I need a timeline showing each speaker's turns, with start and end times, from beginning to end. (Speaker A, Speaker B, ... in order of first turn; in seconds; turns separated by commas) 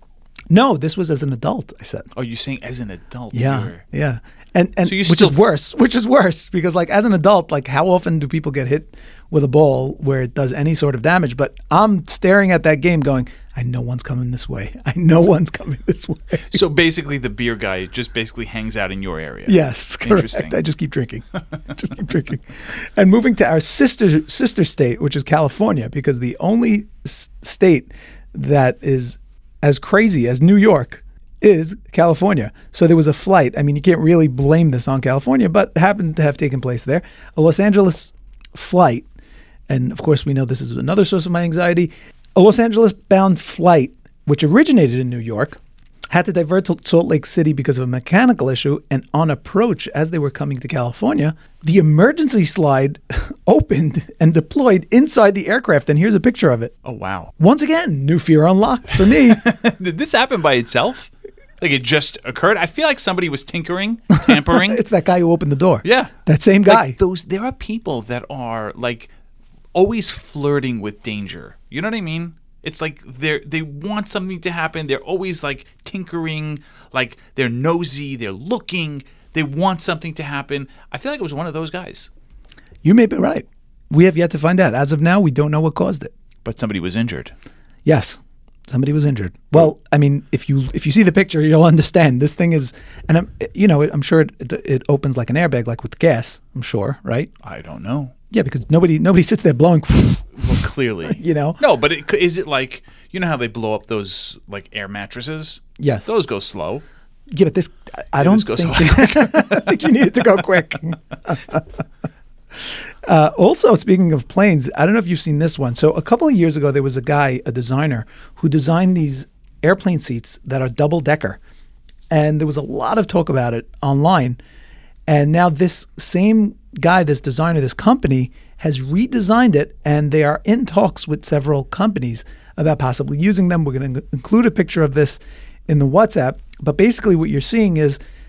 Speaker A: 0.5-2.1, Speaker B: 2.1-3.8, Speaker A: 3.3-16.6, Speaker B: 4.8-5.4, Speaker B: 16.5-20.6, Speaker A: 19.5-39.0, Speaker A: 39.7-56.7, Speaker B: 56.8-57.3, Speaker A: 57.4-59.4, Speaker B: 59.0-64.8, Speaker A: 64.2-67.0, Speaker B: 65.8-69.1, Speaker B: 69.7-82.1, Speaker A: 82.8-86.1, Speaker B: 86.4-87.3, Speaker A: 87.8-97.3, Speaker B: 97.4-98.1, Speaker A: 98.3-101.6, Speaker B: 100.3-106.8, Speaker A: 105.8-106.1, Speaker A: 107.3-111.6, Speaker B: 108.2-110.1, Speaker A: 113.0-121.4, Speaker A: 122.1-124.4, Speaker A: 125.1-138.0